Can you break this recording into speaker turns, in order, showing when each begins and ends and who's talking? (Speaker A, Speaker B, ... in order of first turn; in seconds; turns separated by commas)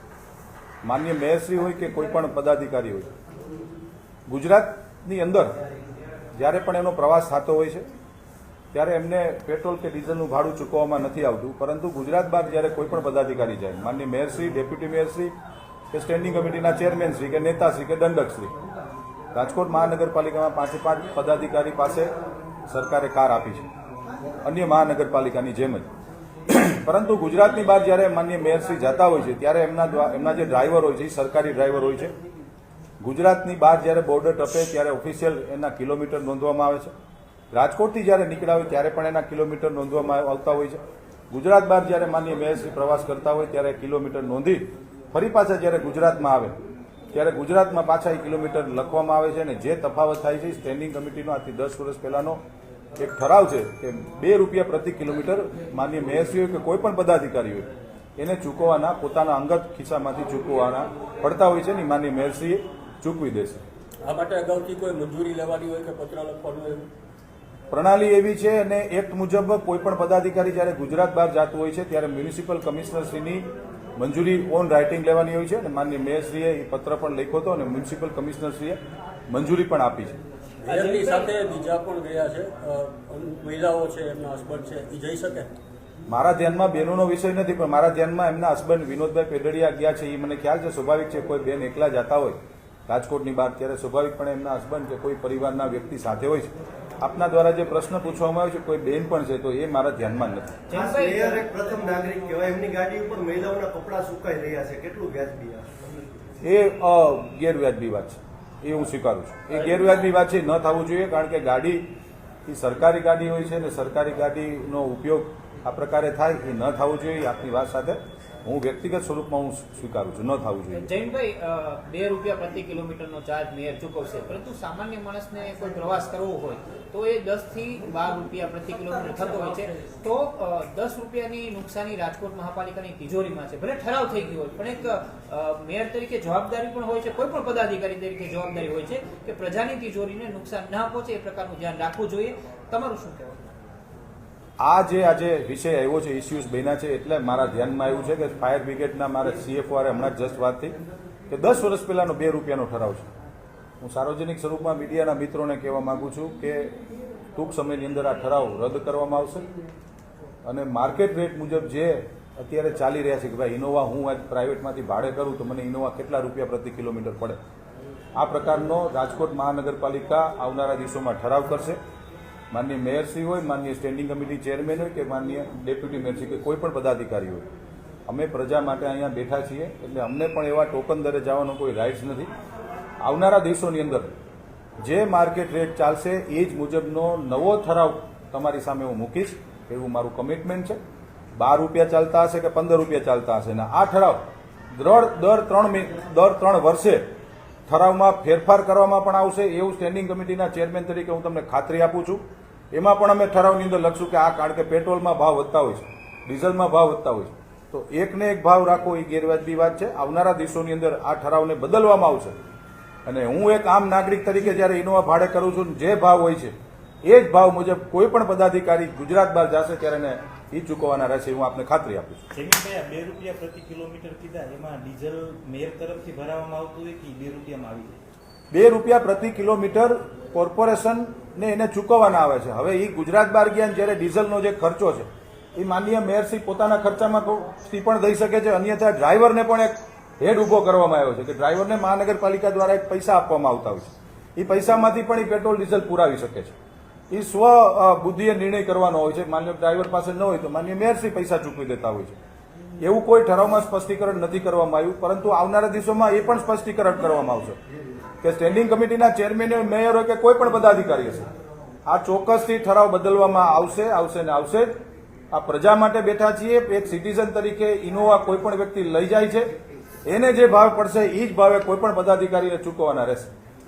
Speaker A: 0.8-3.1, Speaker A: 4.3-5.5, Speaker A: 6.3-7.9, Speaker A: 8.7-15.3, Speaker A: 15.9-18.5, Speaker A: 19.3-22.1, Speaker A: 22.7-23.6, Speaker A: 24.4-25.9, Speaker A: 26.5-32.1, Speaker A: 33.0-36.9, Speaker A: 37.5-40.8, Speaker A: 41.3-46.6, Speaker A: 47.1-52.4, Speaker A: 53.0-63.6, Speaker B: 64.0-66.9, Speaker A: 67.7-73.5, Speaker A: 74.0-80.2, Speaker B: 80.6-85.5, Speaker C: 80.7-81.3, Speaker A: 86.1-100.6, Speaker C: 100.7-101.4, Speaker D: 100.7-105.7, Speaker A: 106.4-111.9, Speaker A: 112.5-120.9, Speaker C: 120.7-143.4, Speaker A: 144.6-150.8, Speaker A: 151.3-153.1, Speaker A: 153.8-156.7, Speaker A: 157.3-159.5, Speaker A: 160.4-167.4, Speaker A: 168.1-171.8, Speaker A: 172.5-177.4, Speaker A: 178.1-182.3, Speaker A: 183.0-184.1, Speaker A: 184.8-190.8, Speaker A: 191.4-197.1, Speaker A: 197.7-212.3, Speaker A: 213.0-222.2, Speaker E: 222.3-228.0, Speaker A: 228.5-246.5, Speaker A: 247.1-252.2, Speaker A: 252.8-257.6, Speaker A: 258.2-261.3, Speaker A: 261.9-264.8, Speaker A: 265.3-269.5, Speaker A: 270.1-273.3